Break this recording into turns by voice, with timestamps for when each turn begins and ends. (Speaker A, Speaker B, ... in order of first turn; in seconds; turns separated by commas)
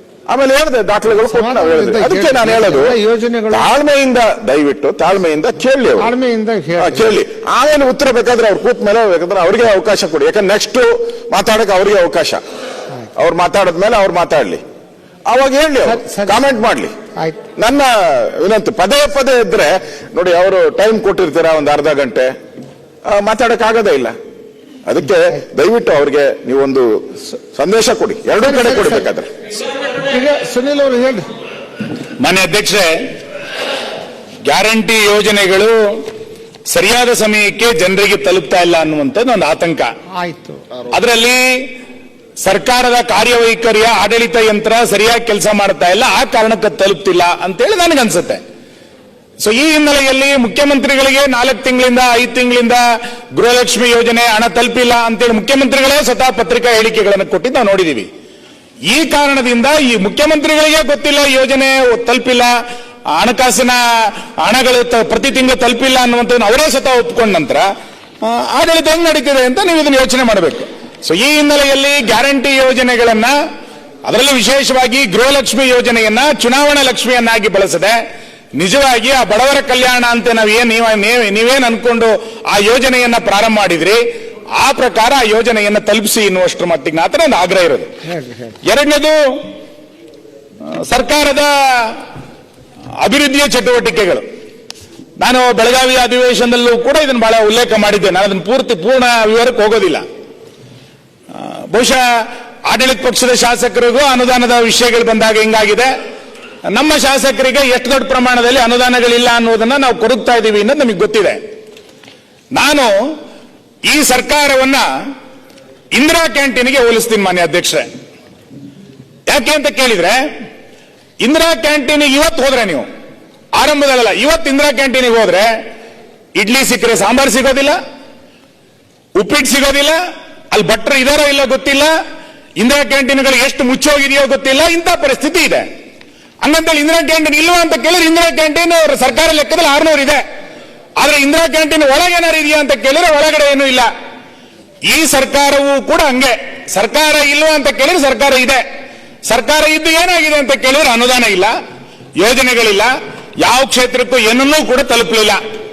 Speaker A: 0.3-6.1, Speaker B: 1.2-3.7, Speaker B: 6.0-7.1, Speaker A: 6.8-12.4, Speaker A: 13.2-14.6, Speaker A: 15.3-16.9, Speaker B: 15.8-16.4, Speaker A: 17.5-22.3, Speaker A: 23.1-24.1, Speaker A: 24.9-29.3, Speaker B: 28.6-28.9, Speaker B: 30.1-31.2, Speaker C: 32.2-32.9, Speaker C: 34.5-35.9, Speaker C: 36.7-39.9, Speaker B: 40.2-40.6, Speaker C: 40.9-41.4, Speaker C: 42.4-48.4, Speaker C: 49.4-52.8, Speaker C: 53.3-58.1, Speaker C: 58.9-62.5, Speaker C: 63.1-63.8, Speaker C: 64.4-67.7, Speaker C: 68.2-73.3, Speaker C: 74.0-78.0, Speaker C: 78.6-84.0, Speaker C: 84.6-87.9, Speaker C: 88.7-89.2, Speaker C: 90.8-92.0, Speaker C: 93.0-94.2, Speaker C: 95.2-100.0, Speaker C: 101.3-102.0, Speaker C: 102.7-105.9, Speaker C: 106.7-111.4, Speaker C: 112.5-112.9, Speaker C: 113.9-114.8, Speaker C: 115.9-117.8, Speaker C: 119.3-120.2, Speaker C: 121.2-122.8, Speaker C: 123.5-125.5, Speaker C: 126.4-127.8, Speaker C: 129.2-130.0, Speaker C: 130.5-131.9, Speaker C: 132.6-135.7, Speaker C: 136.4-140.2, Speaker C: 141.0-143.9, Speaker C: 144.9-148.6, Speaker C: 149.3-151.5, Speaker C: 152.2-152.9, Speaker C: 153.4-155.4